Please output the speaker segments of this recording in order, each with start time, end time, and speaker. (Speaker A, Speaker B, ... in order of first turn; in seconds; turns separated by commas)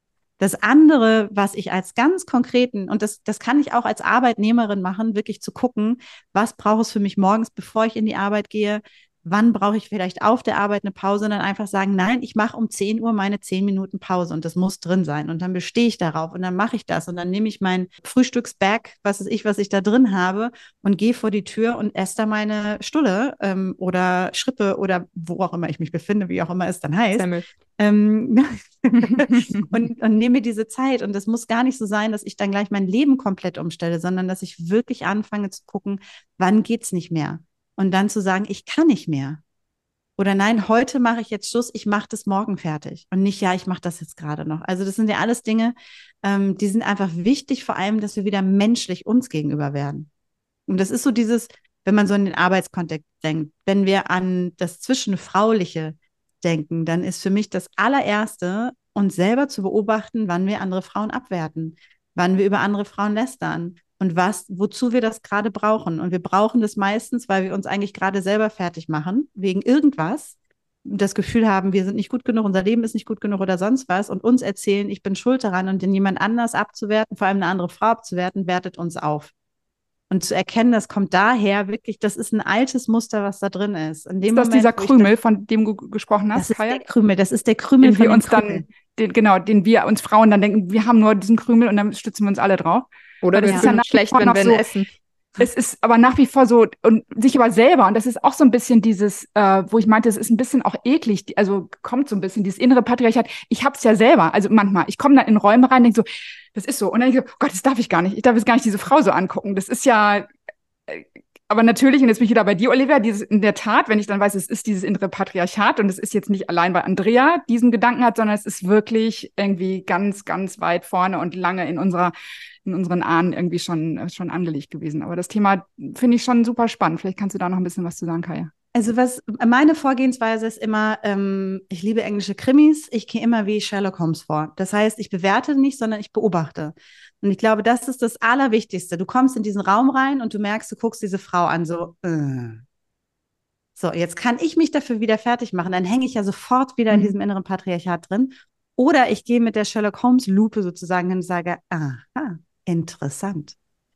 Speaker A: 0.4-39.4, Speaker B: 27.2-27.4, Speaker C: 29.0-29.7, Speaker A: 40.2-50.1, Speaker A: 50.7-79.3, Speaker A: 80.1-85.1, Speaker C: 84.3-86.8, Speaker A: 86.3-88.7, Speaker C: 87.8-94.6, Speaker B: 93.2-94.9, Speaker C: 95.4-110.3, Speaker C: 110.9-122.1, Speaker C: 122.7-128.5, Speaker A: 128.7-142.6, Speaker A: 143.8-153.6, Speaker C: 146.9-147.2